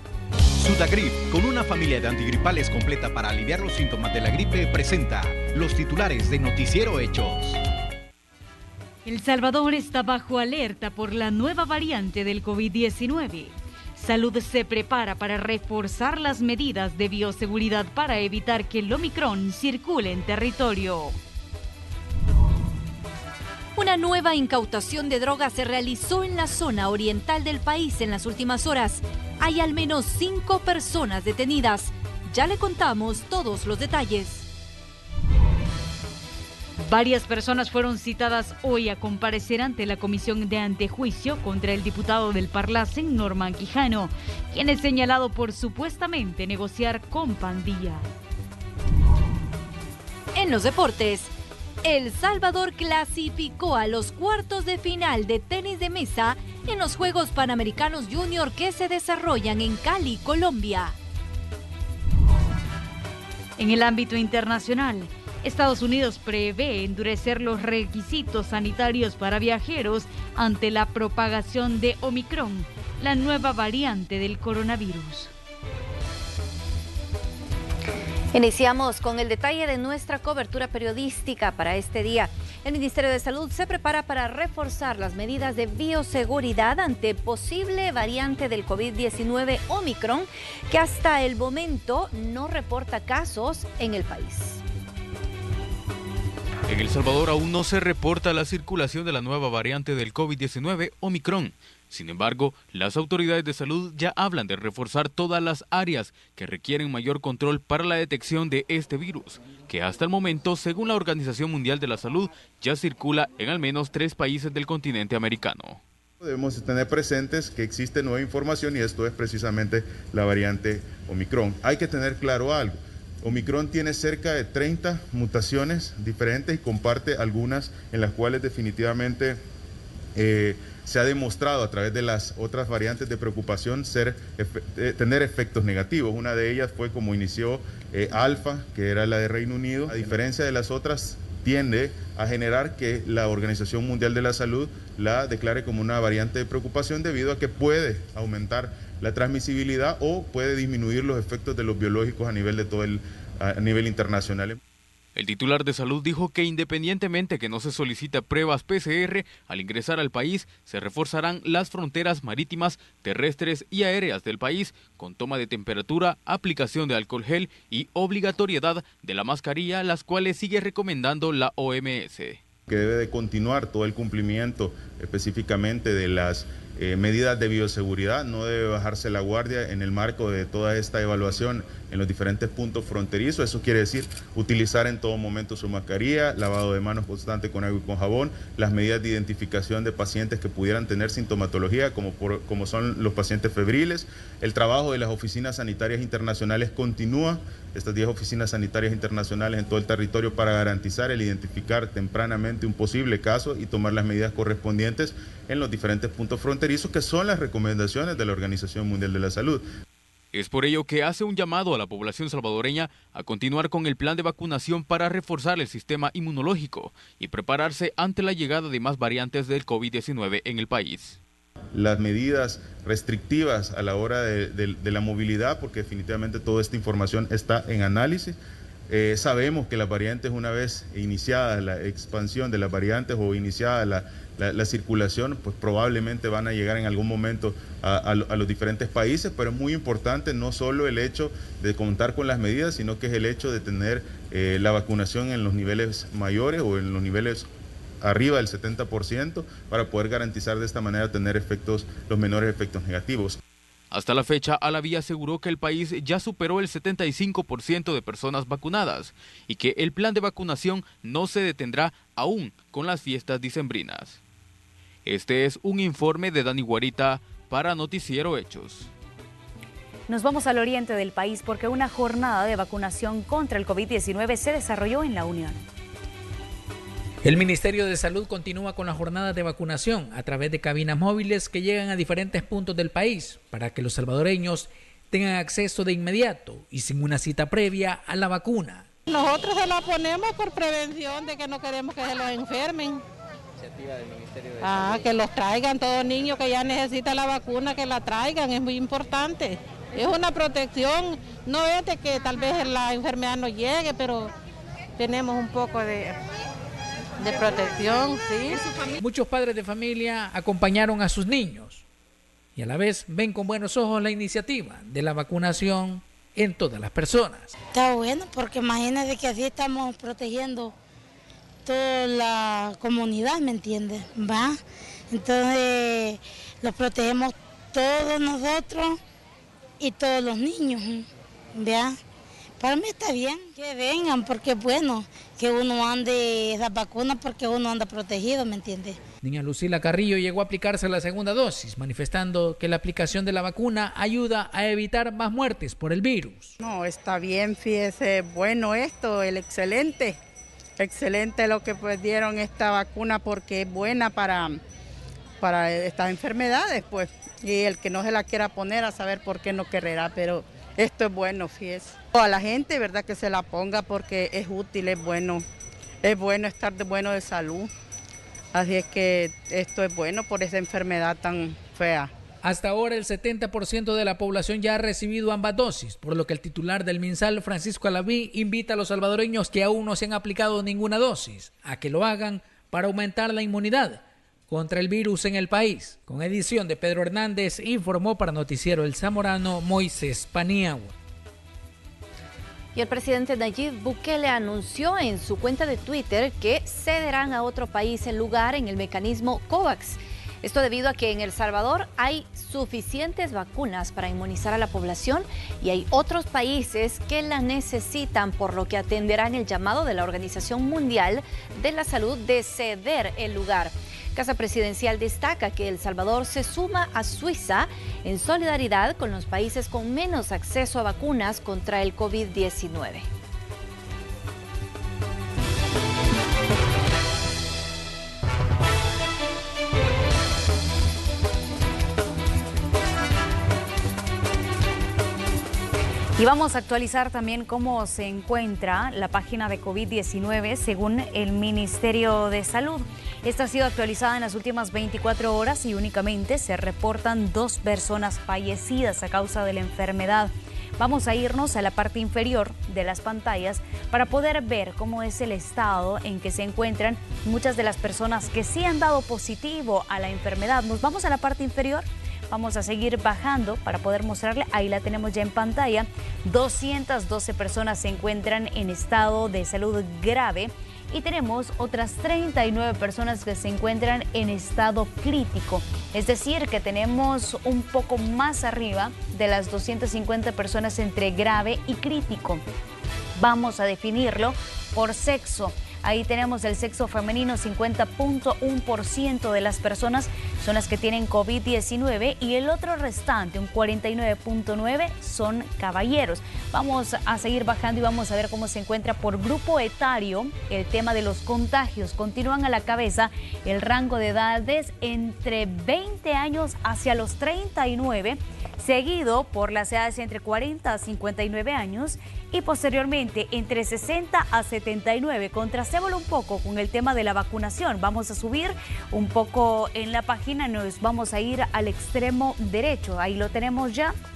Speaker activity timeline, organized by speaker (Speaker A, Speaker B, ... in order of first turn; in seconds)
Speaker A: 0.6-7.6
Speaker B: 9.0-21.2, 36.8-48.1, 63.6-75.3
Speaker C: 23.8-34.4, 50.3-61.0, 78.3-94.6, 392.7-423.1
Speaker D: 96.7-115.8, 155.2-172.4, 210.3-221.2, 253.9-264.2, 265.1-268.9
Speaker E: 116.2-129.4, 130.1-154.6, 172.7-209.6, 221.7-228.3, 228.9-247.5, 248.0-253.4
Speaker F: 270.1-275.6, 436.2-482.4, 483.1-524.0
Speaker G: 277.2-288.9, 309.0-311.8, 312.6-317.5, 339.2-346.5, 372.4-390.9
Speaker H: 289.5-292.9, 294.8-299.0, 300.1-300.6, 301.6-302.7, 303.5-304.2
Speaker I: 317.7-320.7, 321.6-329.0, 329.8-332.0, 332.6-339.0
Speaker J: 346.6-350.2, 350.8-354.6, 355.4-365.4, 366.0-367.7, 368.5-372.1